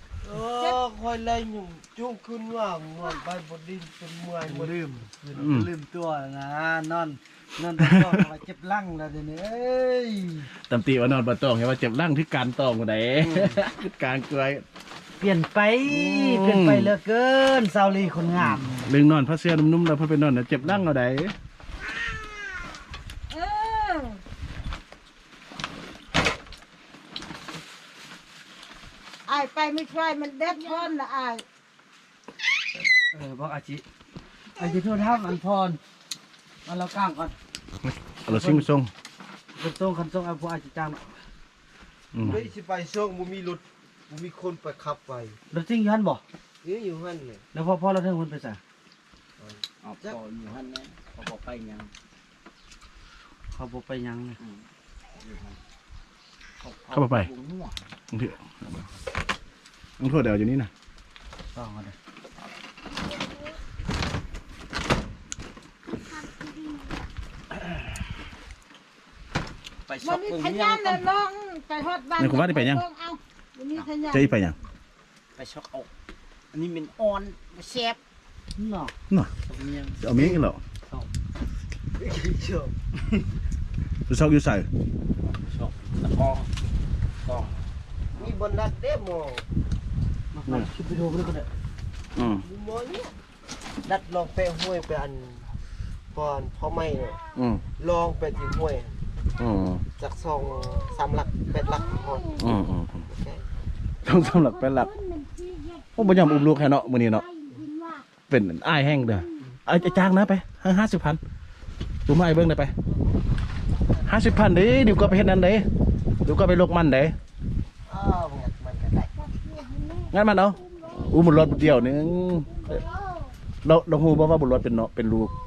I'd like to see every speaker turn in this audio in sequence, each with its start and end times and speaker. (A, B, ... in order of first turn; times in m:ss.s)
0:00.2-0:05.5 A
0:04.4-0:10.5 B
0:05.3-0:05.7 C
0:10.7-0:14.6 C
0:13.2-0:13.6 B
0:15.2-0:18.8 B
0:15.9-0:16.9 C
0:18.4-0:21.3 C
0:23.3-0:24.2 D
0:29.3-0:31.4 D
0:33.1-0:33.8 B
0:34.6-0:35.8 B
0:36.6-0:37.4 B
0:37.8-0:38.9 C
0:38.3-0:38.7 B
0:39.6-0:41.0 B
0:42.1-0:42.4 C
0:42.2-0:45.4 A
0:45.5-0:46.2 B
0:46.6-0:47.4 A
0:47.5-0:48.6 B
0:49.4-0:50.1 A
0:49.8-0:51.9 E
0:53.5-0:54.4 B
0:55.2-0:55.6 E
0:56.6-0:57.8 E
0:56.9-0:57.3 C
0:58.1-0:58.4 C
1:00.0-1:00.7 C
1:01.5-1:01.9 B
1:06.1-1:06.9 D
1:09.9-1:11.1 E
1:10.0-1:14.4 D
1:12.2-1:12.8 C
1:14.1-1:14.6 C
1:15.4-1:15.9 E
1:16.5-1:18.0 E
1:18.6-1:18.9 B
1:19.5-1:20.0 E
1:20.0-1:20.6 C
1:22.0-1:22.7 A
1:24.1-1:24.7 C
1:25.2-1:26.5 E
1:27.2-1:27.5 E
1:28.2-1:29.4 A
1:30.3-1:31.5 B
1:32.2-1:32.4 C
1:32.4-1:33.1 A
1:33.8-1:35.5 A
1:36.1-1:37.2 A
1:37.4-1:37.6 C
1:37.8-1:39.0 A
1:39.4-1:39.8 C
1:40.0-1:43.4 A
1:42.4-1:43.0 C
1:44.0-1:44.9 C
1:44.1-1:46.6 D
1:46.0-1:47.2 C
1:47.1-1:48.0 D
1:48.3-1:51.2 C
1:52.1-1:52.7 C
1:54.1-1:55.7 C
1:56.2-1:57.1 C
1:57.8-1:59.1 A
1:59.4-2:00.1 D
2:00.1-2:02.8 C
2:01.0-2:03.0 D
2:03.6-2:05.3 C